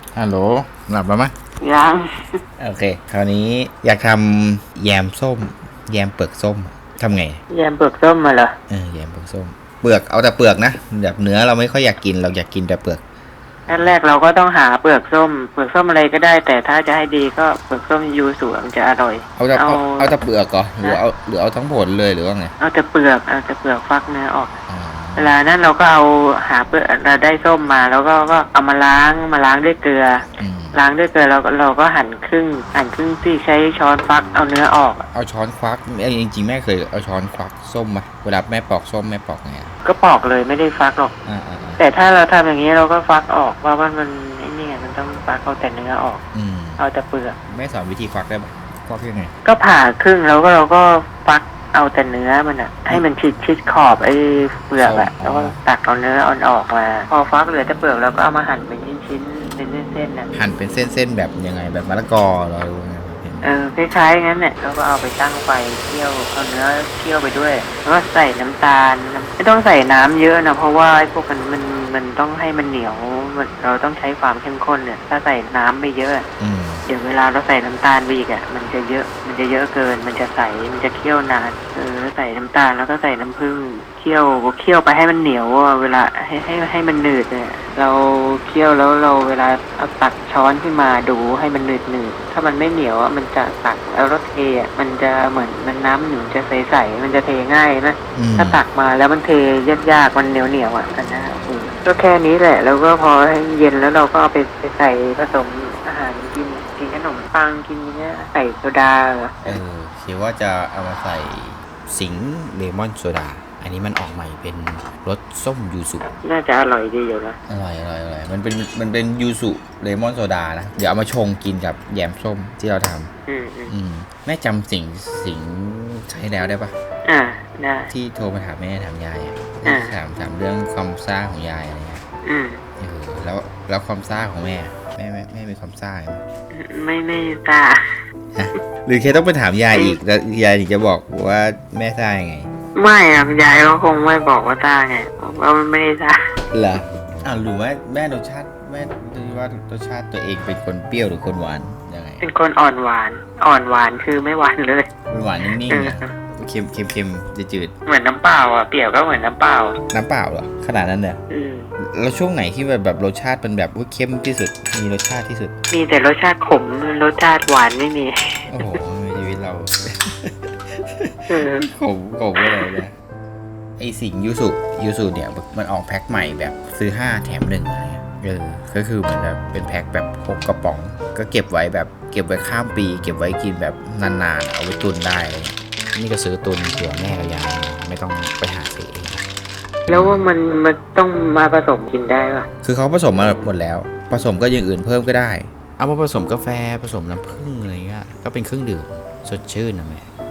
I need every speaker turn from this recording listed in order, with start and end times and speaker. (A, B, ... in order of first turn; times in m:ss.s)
0:00.2-0:01.3 A
0:01.6-0:02.4 B
0:02.6-0:07.4 A
0:07.5-0:08.6 B
0:08.7-0:13.0 A
0:13.7-0:13.9 A
0:13.7-0:20.2 B
0:19.4-0:22.5 A
0:22.6-0:24.6 B
0:24.7-0:25.4 A
0:25.2-0:35.1 B
0:30.4-0:30.8 A
0:35.1-0:39.8 A
0:39.8-0:41.1 B
0:41.2-0:41.8 A
0:41.8-0:46.2 B
0:46.3-0:46.8 A
0:46.8-0:47.4 B
0:47.5-0:49.3 A
0:49.4-1:00.3 B
0:54.8-0:55.6 A
1:00.3-1:03.5 A
1:03.4-1:16.3 B
1:16.4-1:16.9 A
1:16.9-1:49.6 B
1:38.2-1:38.6 A
1:49.4-1:56.1 A
1:56.2-1:57.4 B
1:57.5-2:03.1 A
2:03.3-2:03.7 B
2:03.7-2:06.8 A
2:07.0-2:07.9 B
2:07.9-2:12.0 A
2:09.6-2:10.0 B
2:12.2-2:12.6 B
2:12.8-2:16.2 A
2:16.5-2:18.0 B
2:18.4-2:22.5 A
2:19.7-2:20.0 B
2:22.8-2:26.3 B
2:26.5-2:32.2 A
2:32.2-2:34.9 B
2:35.1-2:37.7 A
2:35.5-2:36.1 B
2:37.9-2:39.8 B
2:39.9-2:41.2 A
2:41.3-2:41.7 B
2:41.8-2:45.5 A
2:45.7-2:48.5 B
2:48.5-2:53.0 A
2:51.3-2:51.7 B
2:52.4-2:52.8 B
2:53.8-3:09.2 A
3:09.9-3:10.3 A
3:09.9-3:12.5 B
3:12.6-3:20.1 A